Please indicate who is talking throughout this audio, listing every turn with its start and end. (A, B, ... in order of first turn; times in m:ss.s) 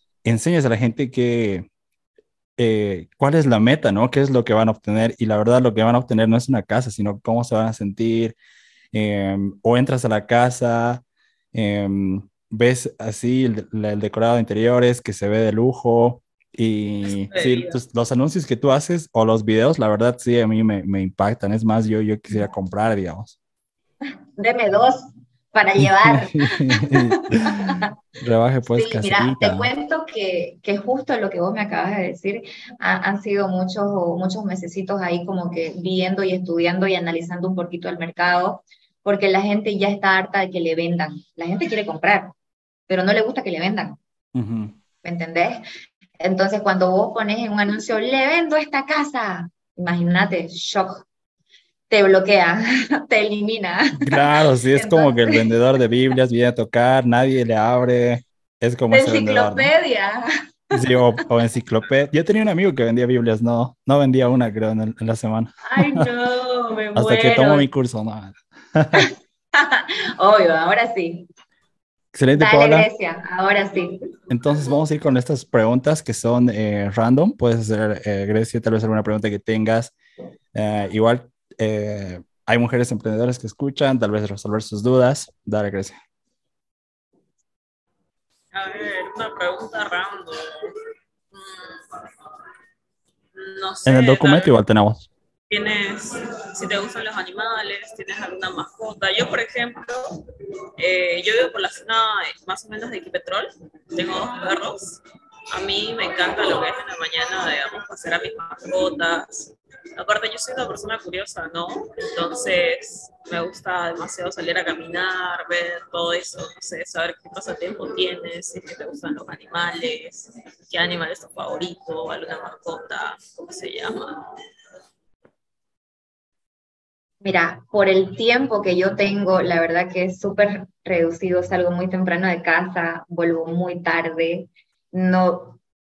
0:00.2-0:01.7 A
0:02.6-0:08.4 A
0:08.9-0:11.0 A
0:11.5-0:23.4 A
0:17.2-0:17.8 B
0:24.4-0:27.9 C
0:25.8-0:29.7 A
0:28.7-0:42.3 C
0:42.9-0:44.0 C
0:44.4-0:44.8 A
0:45.0-0:45.6 C
0:46.2-0:51.0 C
0:51.9-0:55.5 C
0:54.0-0:59.7 A
0:58.9-1:00.3 C
1:00.7-1:06.1 A
1:00.8-1:01.3 C
1:05.7-1:07.7 C
1:07.0-1:09.0 A
1:09.0-1:11.3 C
1:12.1-1:12.9 A
1:12.4-1:14.0 C
1:14.3-1:19.9 A
1:20.6-1:26.0 A
1:28.5-1:30.8 B
1:31.3-1:32.0 B
1:33.3-1:34.5 B
1:33.9-1:35.1 A
1:35.5-1:40.2 B
1:40.8-1:45.0 B
1:45.5-2:04.3 B
2:07.2-2:15.6 C